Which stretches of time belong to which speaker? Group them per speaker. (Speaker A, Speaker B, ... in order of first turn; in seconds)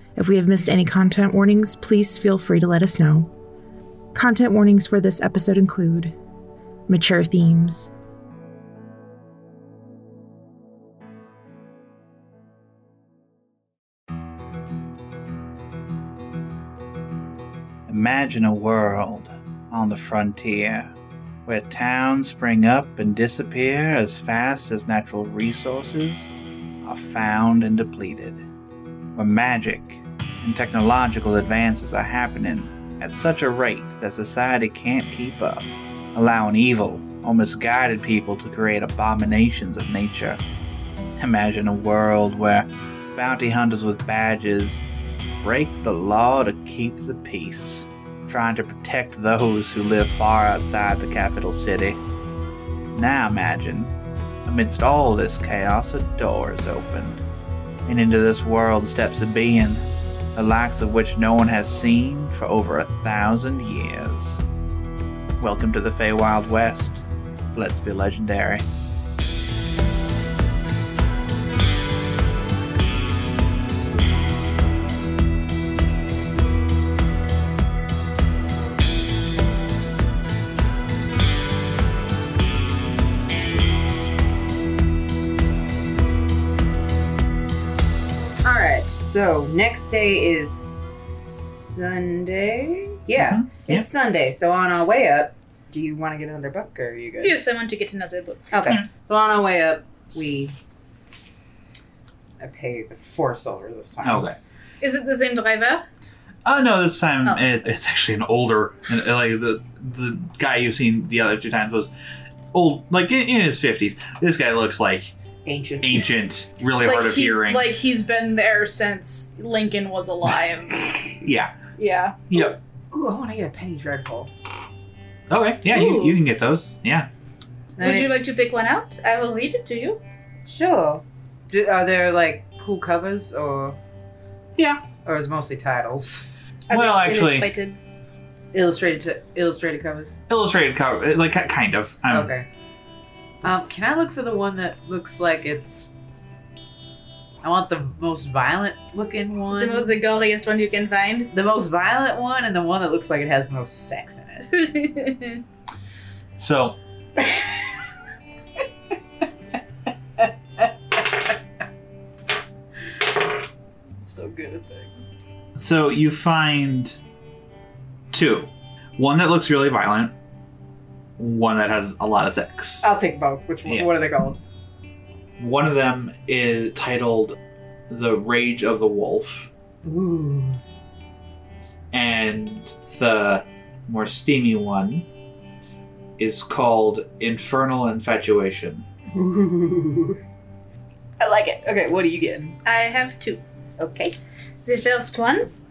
Speaker A: 0.2-3.3, 4.1-6.1, 6.9-7.9
Speaker B: 17.9-20.9, 21.5-26.3, 26.8-28.4, 29.2-40.4, 41.2-44.8, 45.4-52.0, 52.9-53.9, 54.5-57.2, 57.9-59.8, 60.4-64.4, 65.4-68.7, 93.2-93.9, 104.0-104.4, 106.5-111.9, 112.5-115.1, 115.8-117.7, 121.2-121.5, 122.3-122.6, 125.3-127.1, 134.6-134.8, 136.7-137.5, 140.3-142.3, 156.4-156.8, 165.6-167.0, 168.1-170.1, 171.2-172.9, 175.4-177.4, 177.9-179.5, 181.9-185.1, 186.2-188.8
Speaker C: 88.4-97.4, 98.5-100.6, 102.4-104.3, 115.5-116.0, 122.9-124.3, 127.8-128.1, 130.5-133.8, 135.0-136.3, 138.5-140.2, 142.1-142.5, 143.4-146.0, 147.4-150.0, 151.3-154.6, 160.2-160.7, 164.1-165.1, 172.8-174.4, 179.8-180.6, 189.1-190.2, 191.2-192.6, 193.8-194.2
Speaker D: 97.2-98.5, 104.8-105.8, 116.8-121.1, 121.8-122.3, 125.7-126.2, 127.8-130.0, 136.7-137.8, 149.5-151.3, 154.5-155.4, 192.7-193.4, 194.6-195.5